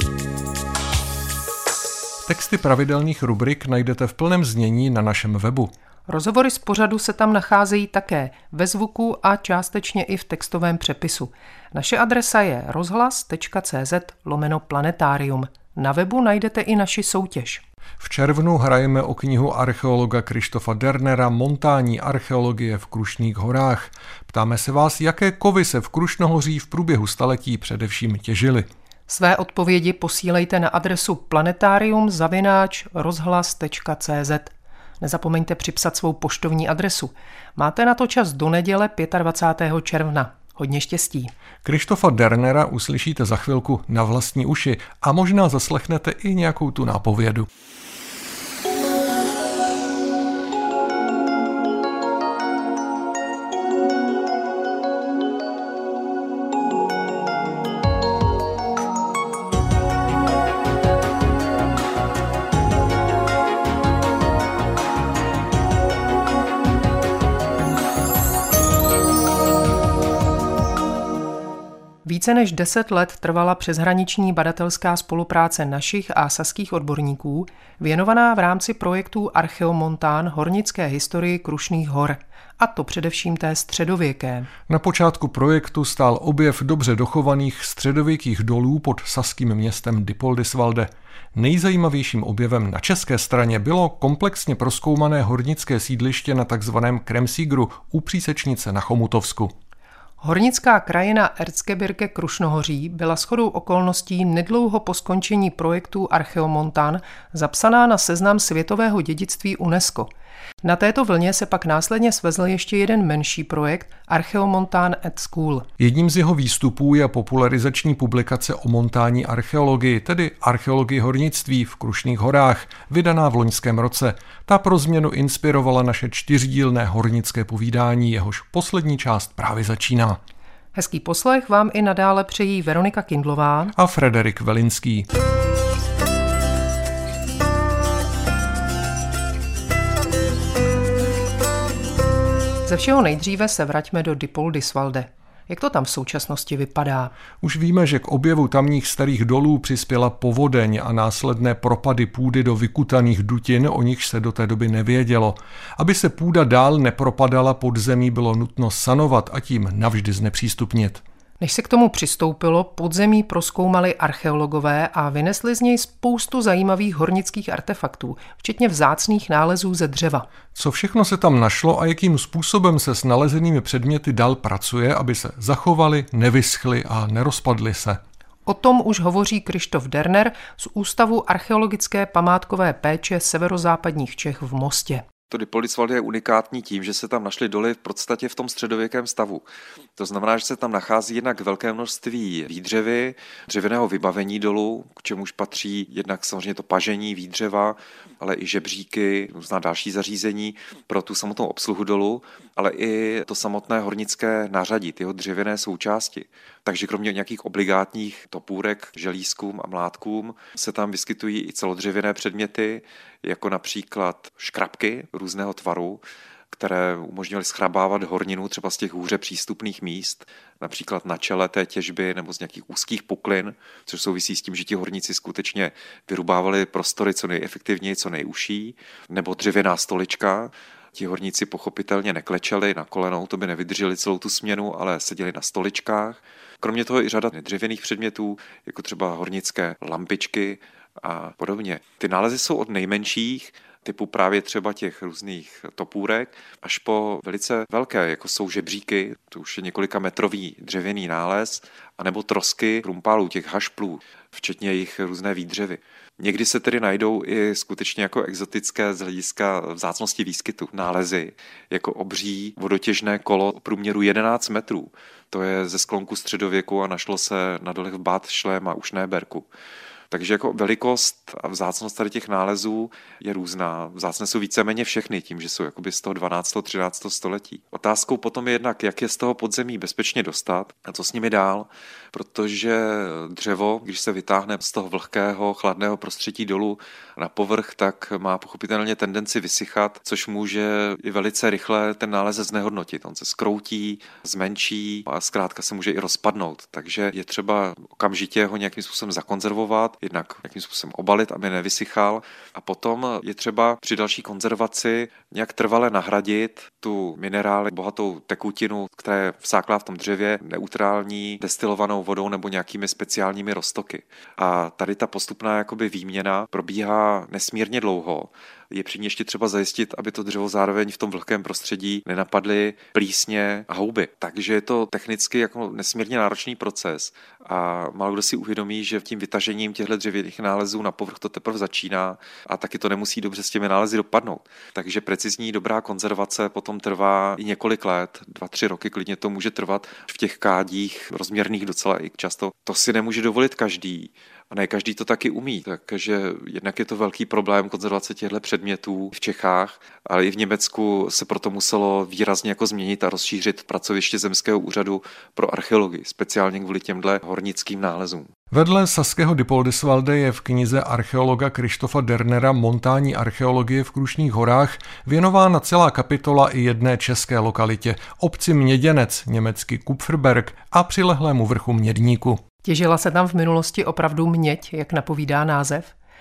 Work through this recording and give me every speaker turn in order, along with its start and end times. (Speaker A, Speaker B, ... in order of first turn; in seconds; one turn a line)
Speaker A: 2.3-5.7
Speaker B: 6.1-17.6
Speaker A: 18.0-28.7
Speaker B: 29.1-41.3
Speaker A: 41.6-47.5
Speaker B: 72.0-84.5
Speaker A: 84.7-99.5
Speaker B: 100.2-110.1
Speaker B: 110.6-115.7
Speaker A: 115.8-130.2
Speaker B: 130.7-133.7
Speaker A: 133.8-135.1
Speaker B: 142.7-147.1
Speaker A: 147.4-161.0
Speaker B: 161.4-170.3
Speaker A: 170.6-178.0
Speaker B: 178.5-185.1
Speaker C: 185.3-189.4
Speaker C: 190.0-269.5
Speaker C: 270.1-358.3
Speaker A: 358.5-372.4
Speaker B: 372.6-375.9